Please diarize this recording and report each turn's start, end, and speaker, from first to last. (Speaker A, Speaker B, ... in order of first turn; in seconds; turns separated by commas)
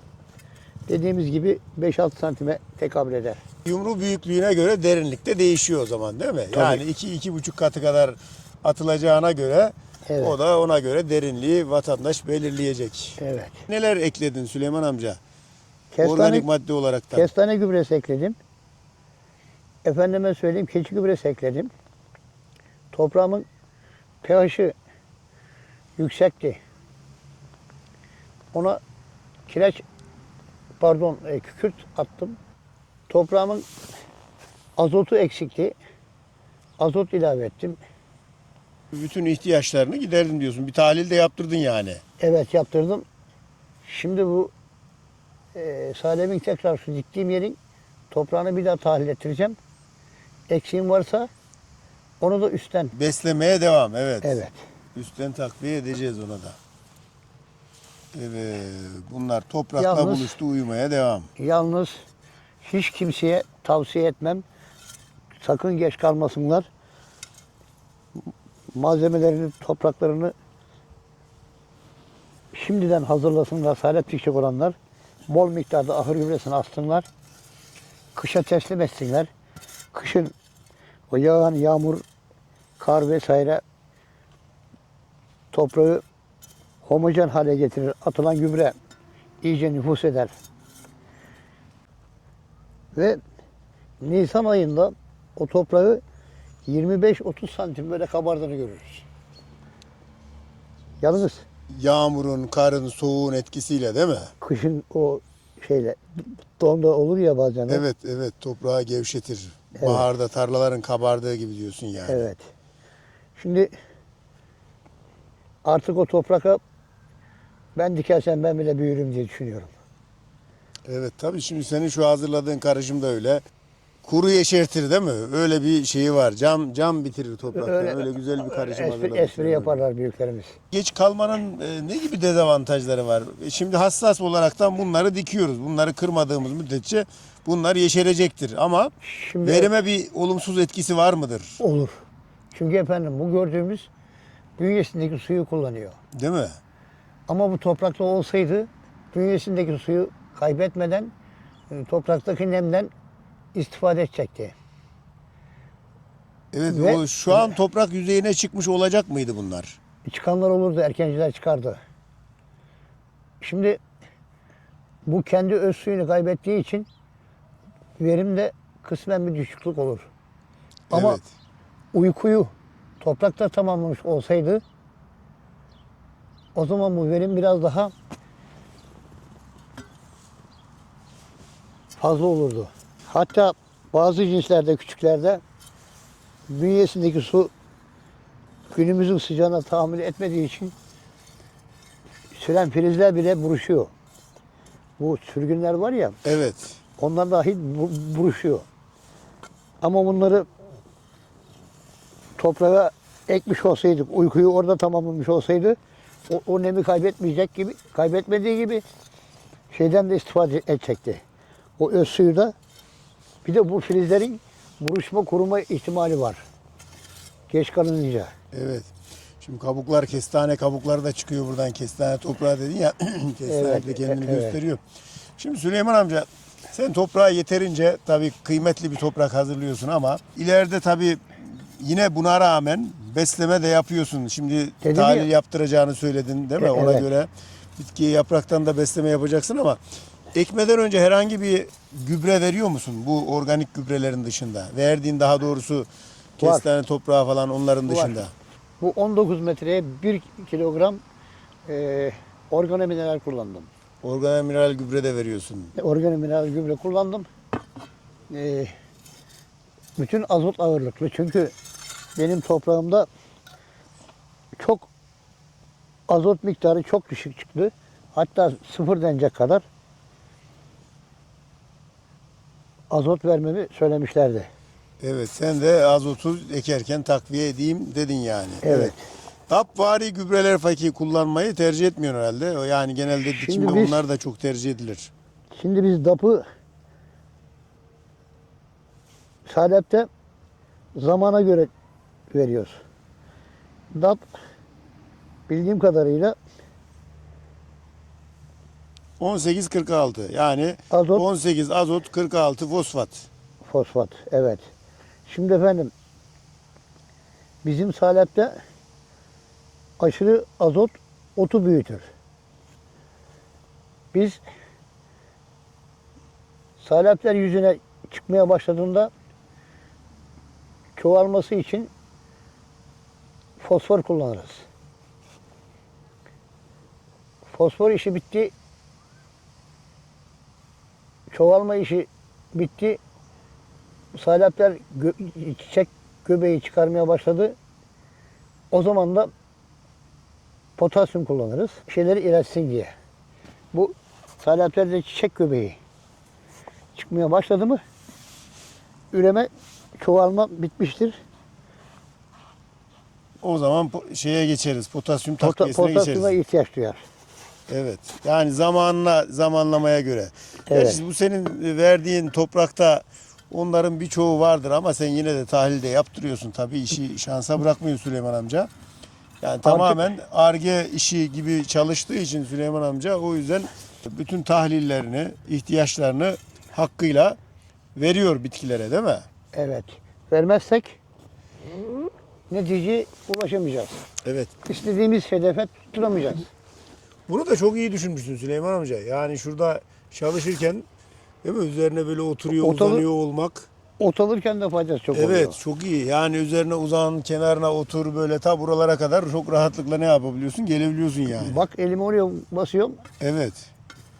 Speaker A: 0.9-3.4, Speaker B: 3.6-15.2, Speaker A: 6.5-6.8, Speaker A: 10.1-10.4, Speaker A: 13.2-13.6, Speaker A: 15.9-16.4, Speaker B: 16.0-17.3, Speaker A: 17.1-18.4, Speaker A: 19.8-21.7, Speaker A: 22.9-23.4, Speaker A: 24.2-24.8, Speaker A: 26.0-26.6, Speaker A: 28.5-28.8, Speaker A: 29.5-29.8, Speaker A: 30.8-32.4, Speaker A: 33.1-33.7, Speaker A: 34.8-35.8, Speaker A: 36.8-37.8, Speaker B: 38.9-42.0, Speaker A: 42.2-43.1, Speaker A: 43.9-44.5, Speaker A: 45.5-47.6, Speaker A: 48.1-49.6, Speaker A: 50.5-51.3, Speaker A: 52.2-52.9, Speaker B: 52.9-54.4, Speaker A: 54.2-54.6, Speaker B: 54.9-56.6, Speaker B: 58.1-61.3, Speaker A: 59.8-60.4, Speaker A: 61.4-62.0, Speaker A: 62.6-64.4, Speaker A: 65.4-66.7, Speaker A: 68.7-70.3, Speaker A: 72.5-74.8, Speaker A: 75.3-77.1, Speaker A: 78.1-79.3, Speaker A: 79.9-80.3, Speaker A: 81.1-82.0, Speaker A: 82.8-83.6, Speaker A: 85.5-86.0, Speaker A: 86.9-88.8, Speaker A: 89.4-90.3, Speaker A: 92.9-93.2, Speaker A: 94.0-96.0, Speaker A: 96.7-99.0, Speaker A: 101.0-101.4, Speaker B: 101.7-104.3, Speaker A: 104.4-107.8, Speaker B: 107.7-112.3, Speaker A: 109.8-110.1, Speaker A: 112.1-112.4, Speaker A: 113.4-113.7, Speaker A: 115.6-116.6, Speaker A: 117.8-119.7, Speaker B: 120.9-123.4, Speaker B: 124.0-129.8, Speaker A: 127.5-130.5, Speaker B: 130.7-141.6, Speaker A: 139.0-139.7, Speaker A: 141.6-142.0, Speaker A: 142.5-143.9, Speaker A: 144.6-146.0, Speaker B: 146.1-146.6, Speaker A: 147.3-151.1, Speaker A: 151.7-152.9, Speaker A: 153.5-154.5, Speaker B: 156.5-159.8, Speaker A: 156.7-157.5, Speaker A: 160.1-161.8, Speaker A: 163.4-163.8, Speaker A: 165.1-166.9, Speaker A: 168.0-170.1, Speaker B: 170.9-171.2, Speaker A: 170.9-171.2, Speaker A: 171.9-174.6, Speaker A: 176.5-177.9, Speaker A: 182.0-185.4, Speaker A: 186.5-187.5, Speaker A: 188.7-190.7, Speaker A: 192.3-193.9, Speaker A: 195.0-196.2, Speaker B: 196.2-196.8, Speaker A: 197.0-198.6, Speaker A: 199.8-200.5, Speaker A: 202.4-205.8, Speaker A: 206.3-208.8, Speaker A: 209.7-211.2, Speaker A: 211.8-212.5, Speaker A: 213.4-216.4, Speaker A: 217.5-218.3, Speaker B: 218.5-218.9, Speaker B: 219.4-224.8, Speaker A: 223.5-224.6, Speaker B: 225.4-239.8, Speaker A: 234.8-235.3, Speaker A: 236.6-237.1, Speaker B: 240.3-248.3, Speaker A: 246.4-246.7, Speaker A: 247.9-248.2, Speaker A: 248.8-251.0, Speaker A: 251.7-253.7, Speaker B: 254.0-255.7, Speaker A: 255.8-257.3, Speaker A: 258.3-258.7, Speaker A: 260.0-261.5, Speaker A: 262.1-263.1, Speaker A: 264.6-264.9, Speaker A: 266.1-269.6, Speaker A: 272.9-274.5, Speaker B: 275.0-278.9, Speaker A: 278.6-279.0, Speaker B: 279.5-285.1, Speaker A: 283.3-284.0, Speaker A: 285.5-286.4, Speaker A: 289.5-290.1, Speaker A: 291.0-291.7, Speaker A: 292.3-292.8, Speaker A: 293.9-294.3, Speaker A: 295.5-296.4, Speaker B: 299.2-303.3, Speaker A: 300.9-301.2, Speaker A: 303.6-304.6, Speaker A: 305.3-305.9, Speaker A: 307.6-308.6, Speaker A: 310.0-312.1, Speaker A: 314.1-314.4, Speaker A: 316.8-319.1, Speaker A: 321.0-321.9, Speaker A: 323.6-324.6, Speaker A: 327.5-328.5, Speaker A: 331.3-333.0, Speaker A: 334.1-337.6, Speaker A: 338.7-339.3, Speaker A: 340.8-342.9, Speaker A: 343.7-345.8, Speaker A: 346.9-347.8, Speaker A: 349.1-351.2, Speaker B: 353.4-356.4, Speaker A: 355.4-357.0, Speaker B: 357.7-368.7, Speaker A: 360.7-361.0, Speaker B: 369.4-377.4, Speaker A: 369.6-370.1, Speaker B: 378.0-379.2, Speaker A: 379.5-381.0, Speaker A: 382.5-384.0, Speaker B: 384.2-384.5, Speaker A: 384.6-386.5, Speaker B: 387.3-390.9, Speaker B: 391.4-393.7, Speaker A: 392.6-393.0, Speaker A: 394.0-395.6, Speaker B: 395.1-401.6, Speaker A: 401.4-403.0, Speaker B: 403.2-403.7